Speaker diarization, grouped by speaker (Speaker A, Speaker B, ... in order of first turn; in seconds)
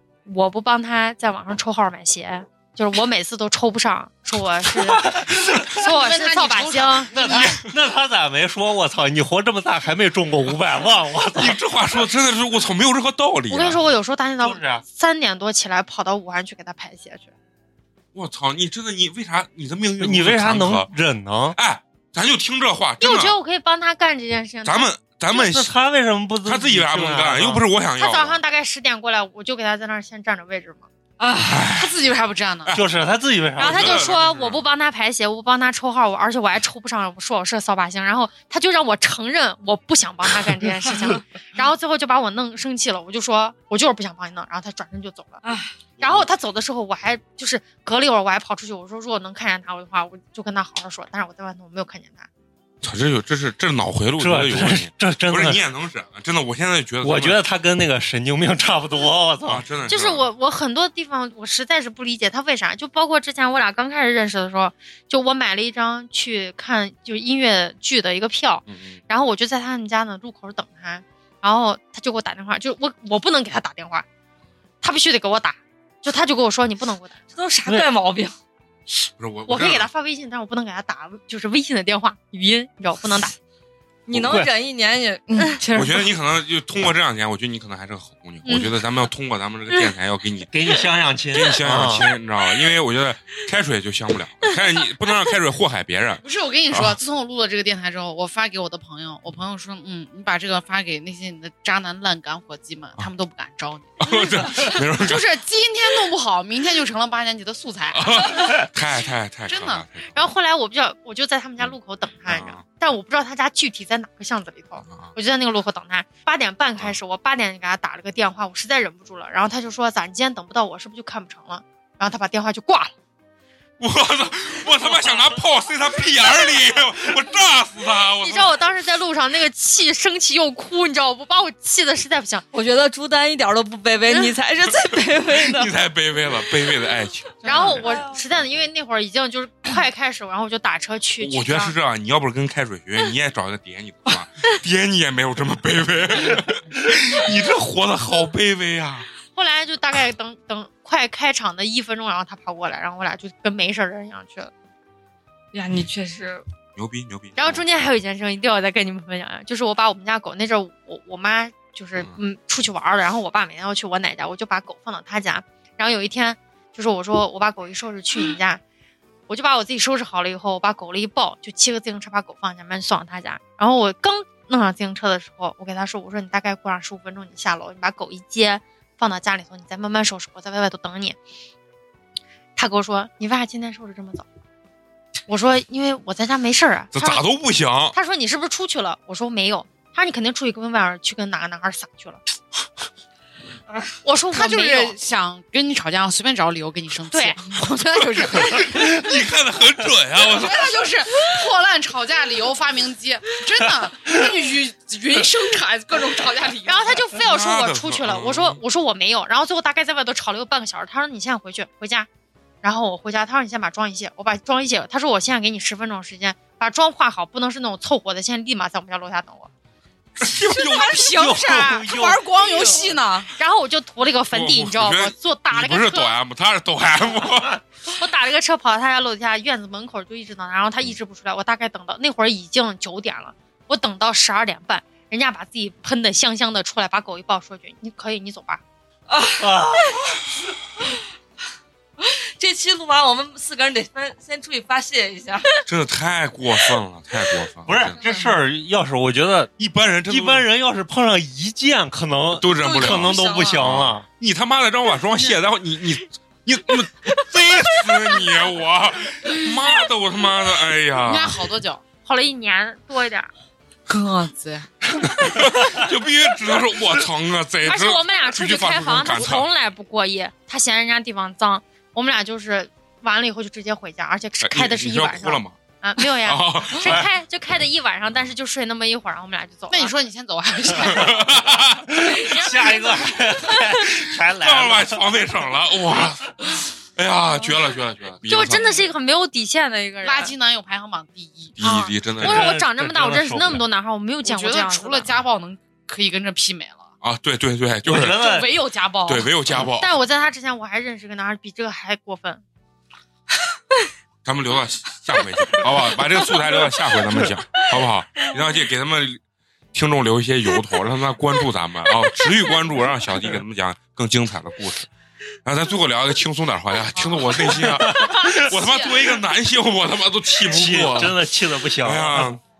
Speaker A: 0.2-7.2, 13.5-17.3, 23.0-24.9, 28.0-30.9, 33.6-45.4, 46.0-52.3, 59.9-74.0, 74.8-77.2, 79.5-83.3, 110.1-122.9, 128.2-132.4, 137.4-141.7, 149.3-154.5, 157.3-168.6, 169.3-181.2, 182.6-184.2, 185.3-187.2, 187.9-192.2, 194.0-194.9, 197.1-197.4, 206.7-212.1, 212.6-219.5, 223.3-226.1, 227.9-238.6, 262.0-263.3, 267.6-279.9, 282.3-283.2, 288.3-290.3, 291.6-295.1, 299.7-302.4
Speaker B: 5.0-5.6, 7.1-11.6, 14.4-14.8, 20.0-21.6, 25.3-27.6, 32.7-34.0, 54.2-55.6, 57.0-59.6, 84.1-84.5, 90.5-92.1, 221.1-222.2, 239.4-240.1, 247.7-249.5, 250.1-254.0, 281.9-285.2, 292.2-293.6, 297.8-298.5, 317.4-318.4, 320.4-322.4
Speaker C: 5.7-7.5, 31.7-32.7, 96.2-108.2, 109.5-109.8, 137.5-137.8, 194.3-198.9, 200.2-207.0, 220.3-223.3, 261.0-261.8, 263.9-264.7, 279.7-281.3, 290.0-291.6, 294.2-296.9, 298.0-299.3
Speaker D: 7.3-7.7, 11.3-13.8, 18.1-20.9, 21.5-23.4, 24.6-25.7, 26.4-28.4, 31.4-31.9, 33.6-34.6, 46.0-46.3, 52.8-57.4, 59.5-60.2, 68.7-69.0, 78.9-79.9, 85.7-90.5, 91.3-97.0, 104.0-105.2, 107.9-110.2, 112.2-112.6, 123.8-128.5, 135.3-137.7, 141.2-149.1, 156.8-157.6, 186.9-187.9, 198.2-200.7, 207.1-208.6, 220.2-221.5, 224.3-227.6, 245.7-248.0, 249.6-250.5, 252.3-261.4, 265.2-269.4, 274.4-277.1, 280.8-282.0, 283.8-288.8, 291.6-292.6, 297.0-298.2, 299.1-299.9, 304.2-309.2, 309.7-314.9, 315.4-321.2, 321.8-322.4
Speaker E: 31.2-31.7, 45.4-45.7, 77.3-78.3, 84.1-86.0, 132.5-135.7, 137.5-138.2, 155.5-156.4, 239.1-240.0, 242.0-245.6, 248.0-248.3, 252.6-253.6, 318.3-318.8